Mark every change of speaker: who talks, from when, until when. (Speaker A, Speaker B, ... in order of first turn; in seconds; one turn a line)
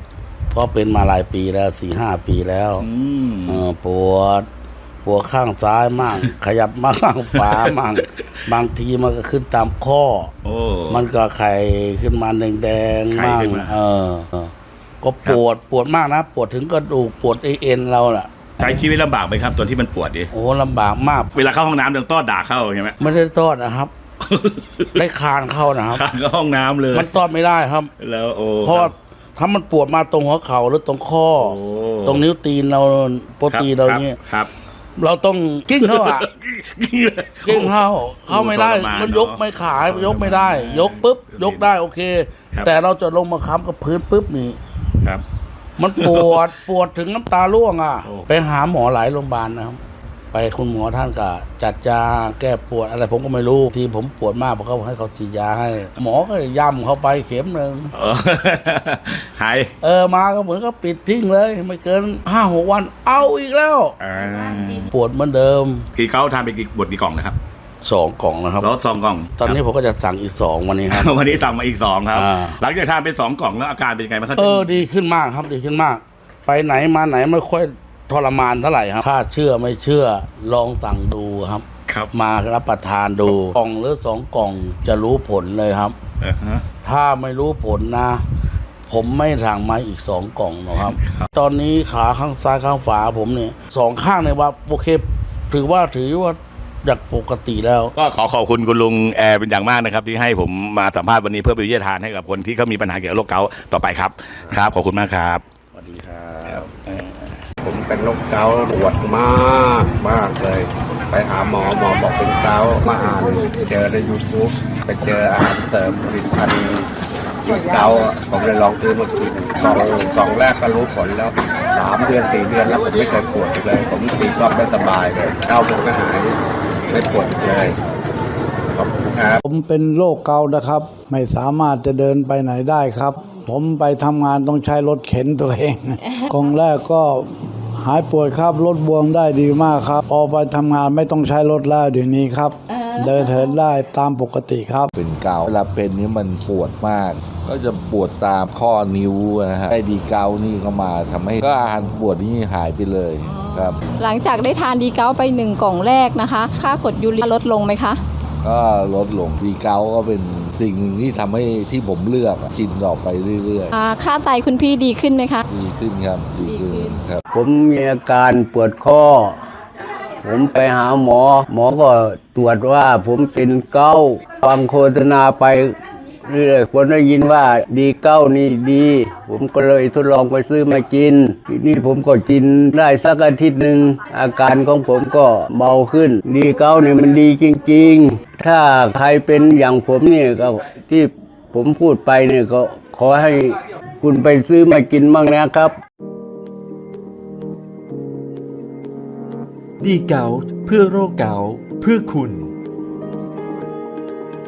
Speaker A: 0.5-2.9
Speaker B: 2.8-3.6
Speaker A: 3.5-4.5
Speaker A: 5.0-10.3
Speaker B: 10.4-11.1
Speaker A: 10.9-18.8
Speaker B: 13.1-13.8
Speaker B: 18.6-20.3
Speaker A: 20.3-21.3
Speaker B: 21.3-23.0
Speaker A: 23.0-23.9
Speaker B: 24.3-25.0
Speaker A: 25.0-26.1
Speaker B: 25.9-27.1
Speaker A: 26.9-27.9
Speaker B: 28.0-28.9
Speaker A: 28.6-34.2
Speaker B: 31.4-32.3
Speaker B: 33.5-34.5
Speaker A: 35.0-36.2
Speaker B: 35.8-41.7
Speaker A: 37.4-44.6
Speaker A: 45.8-49.8
Speaker B: 46.0-46.4
Speaker B: 48.0-48.3
Speaker A: 50.3-57.9
Speaker B: 57.9-59.7
Speaker A: 59.8-64.0
Speaker B: 64.0-64.9
Speaker A: 64.9-65.8
Speaker B: 66.0-67.4
Speaker A: 67.8-68.7
Speaker B: 68.6-69.6
Speaker A: 69.4-71.2
Speaker B: 70.9-74.9
Speaker A: 72.1-72.6
Speaker A: 74.4-86.0
Speaker B: 86.2-86.6
Speaker A: 86.8-88.2
Speaker A: 88.9-97.9
Speaker B: 90.8-91.3
Speaker B: 98.0-105.4
Speaker A: 105.7-107.1
Speaker C: 107.6-116.9
Speaker C: 117.4-127.8
Speaker C: 128.7-129.4
Speaker D: 129.4-144.9
Speaker E: 144.9-153.8
Speaker F: 153.6-158.0
Speaker E: 158.4-163.8
Speaker F: 163.7-165.4
Speaker E: 165.5-167.2
Speaker F: 166.5-166.8
Speaker G: 167.3-169.4
Speaker G: 170.2-175.8
Speaker G: 176.3-195.7
Speaker H: 199.8-202.5